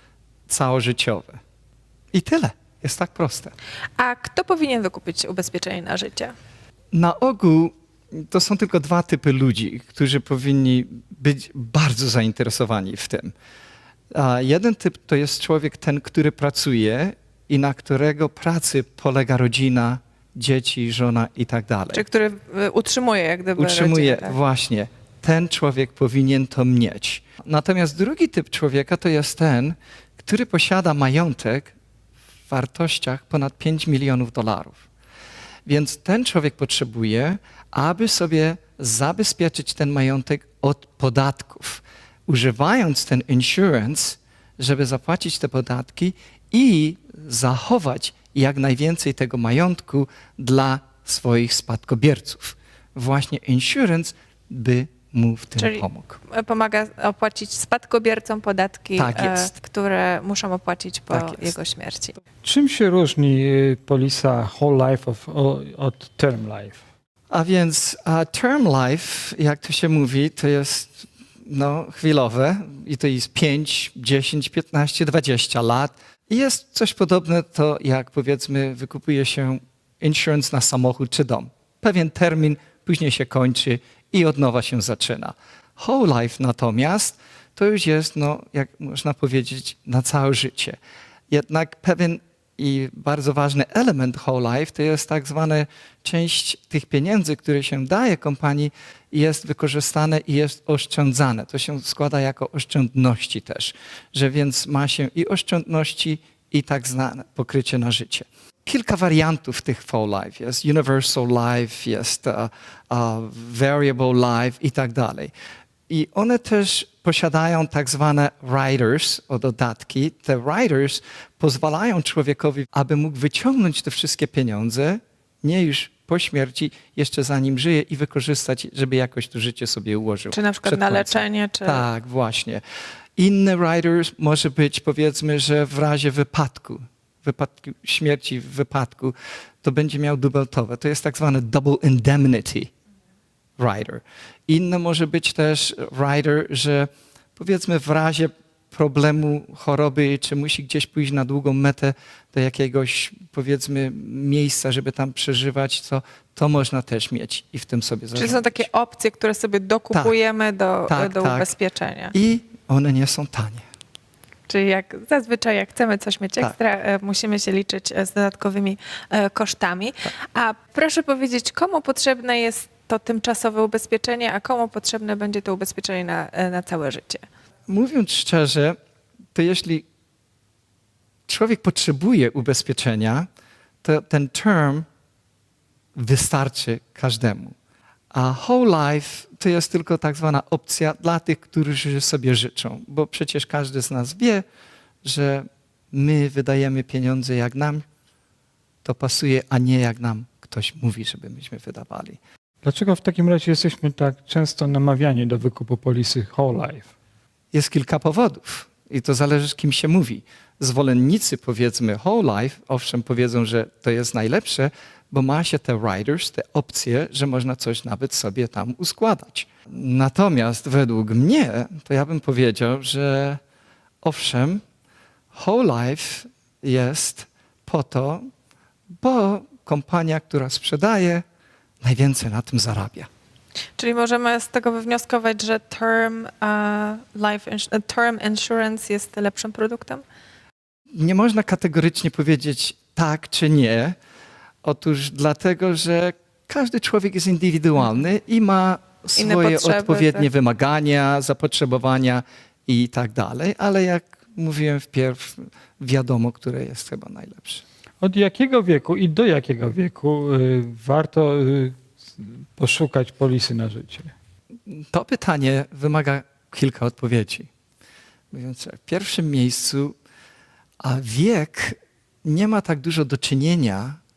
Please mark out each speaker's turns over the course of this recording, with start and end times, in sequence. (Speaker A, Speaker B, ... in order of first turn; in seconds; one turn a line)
Speaker A: 0.5-1.4
Speaker A: 2.1-3.5
Speaker B: 4.0-6.3
Speaker A: 6.9-13.3
Speaker A: 14.1-22.0
Speaker B: 21.9-24.4
Speaker A: 23.6-31.7
Speaker A: 32.5-34.9
Speaker A: 35.6-56.2
Speaker B: 55.6-62.2
Speaker A: 59.0-59.5
Speaker A: 61.1-61.6
Speaker C: 62.4-66.8
Speaker A: 67.3-90.8
Speaker A: 91.3-115.3
Speaker A: 115.9-132.6
Speaker B: 130.3-131.8
Speaker A: 133.2-142.7
Speaker A: 143.6-158.6
Speaker B: 158.1-162.1
Speaker A: 160.9-161.5
Speaker A: 162.1-163.6
Speaker B: 164.5-177.2
Speaker A: 177.7-178.8
Speaker A: 179.3-179.8
Speaker A: 181.3-183.3
Speaker A: 183.8-184.9
Speaker A: 185.9-187.6
Speaker A: 188.1-194.4
Speaker A: 195.0-197.8
Speaker A: 198.8-202.2
Speaker C: 202.6-206.9
Speaker A: 207.5-223.4
Speaker A: 224.0-224.6
Speaker A: 225.3-228.3
Speaker A: 229.0-231.2
Speaker A: 231.8-233.1
Speaker B: 233.8-240.0
Speaker A: 240.9-244.0
Speaker A: 244.6-257.6
Speaker B: 249.2-250.3
Speaker C: 258.0-264.1
Speaker A: 264.7-267.5
Speaker A: 268.3-270.0
Speaker A: 270.8-274.0